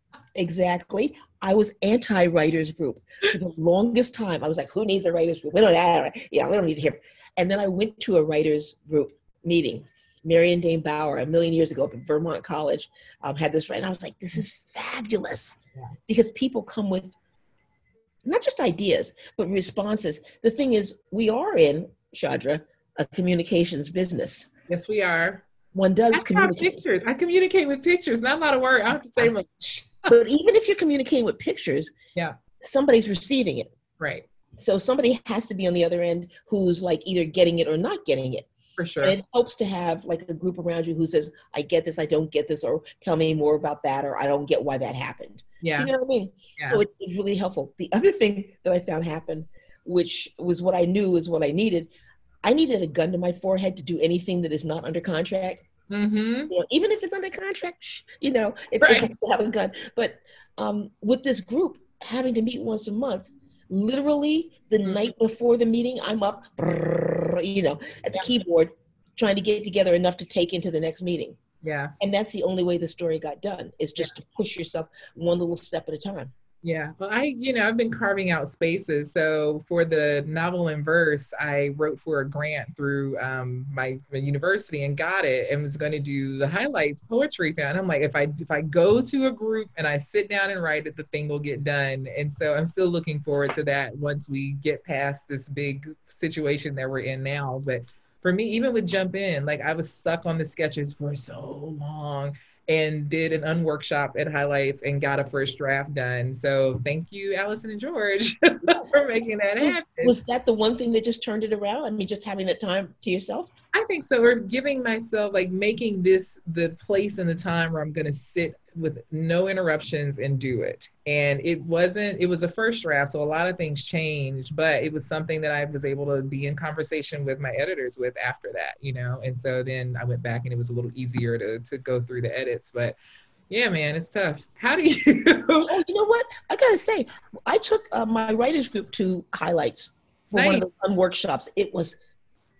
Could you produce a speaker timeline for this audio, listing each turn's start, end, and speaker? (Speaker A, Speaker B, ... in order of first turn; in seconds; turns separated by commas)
Speaker A: 0.3-17.1, Speaker A: 18.2-24.5, Speaker B: 24.7-25.4, Speaker A: 25.7-26.8, Speaker B: 26.1-29.9, Speaker A: 29.2-31.9, Speaker A: 32.6-33.7, Speaker B: 34.0-34.2, Speaker A: 34.6-38.5, Speaker B: 38.8-39.2, Speaker A: 39.0-51.9, Speaker B: 45.6-45.9, Speaker B: 46.6-46.8, Speaker A: 52.4-55.6, Speaker B: 55.9-56.5, Speaker A: 56.5-71.4, Speaker B: 58.8-59.1, Speaker B: 71.6-71.9, Speaker A: 72.0-76.3, Speaker B: 76.6-110.1, Speaker A: 109.6-113.5, Speaker B: 113.7-132.9, Speaker B: 133.5-135.7, Speaker A: 135.7-142.0, Speaker B: 140.3-140.7